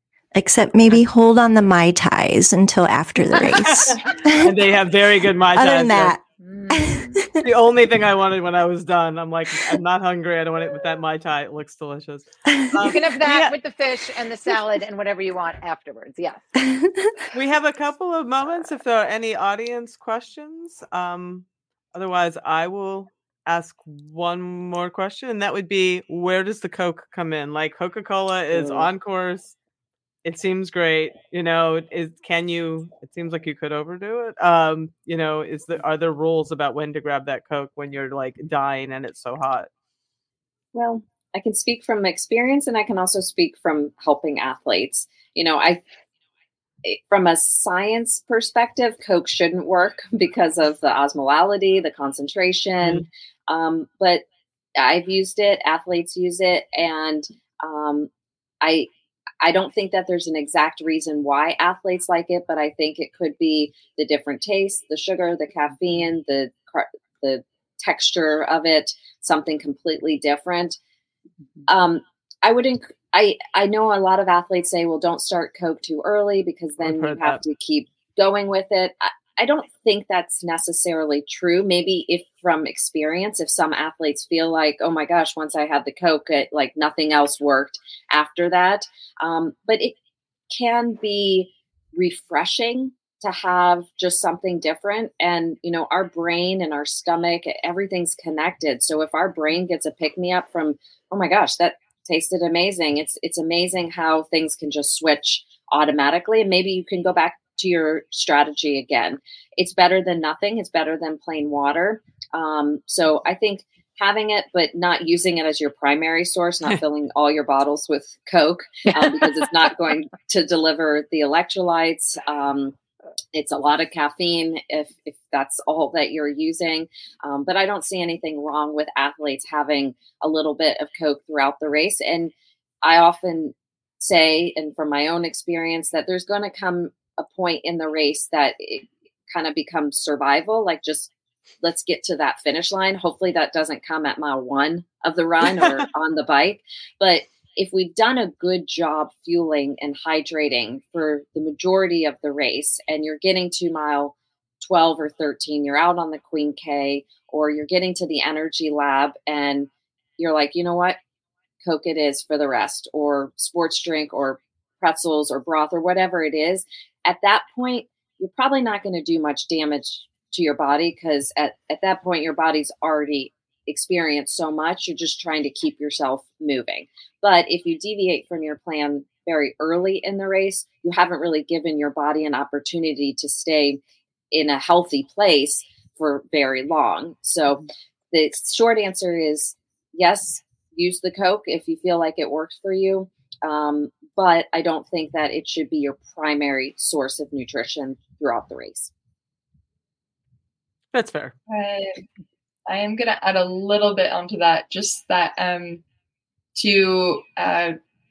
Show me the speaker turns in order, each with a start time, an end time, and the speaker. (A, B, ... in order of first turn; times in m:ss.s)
0:00.3-0:04.6 A
0:03.7-0:06.1 B
0:05.5-0:07.5 A
0:06.4-0:07.2 C
0:07.4-0:13.5 B
0:12.5-0:13.0 A
0:12.8-0:16.5 C
0:16.6-0:17.2 A
0:17.3-0:29.6 B
0:28.6-0:28.9 C
0:30.2-0:39.7 B
0:40.7-0:45.8 D
0:46.8-0:54.2 D
0:54.8-0:58.1 D
0:58.6-0:58.9 D
0:59.4-1:10.8 D
1:11.7-1:30.0 D
1:16.8-1:17.4 B
1:30.5-2:02.8 D
1:58.9-1:59.2 C
2:03.3-2:41.0 D
2:41.6-3:03.8 D
3:04.3-3:18.9 D
3:20.9-3:21.4 B
3:21.5-3:22.0 E
3:22.7-3:25.8 E
3:26.6-3:27.8 E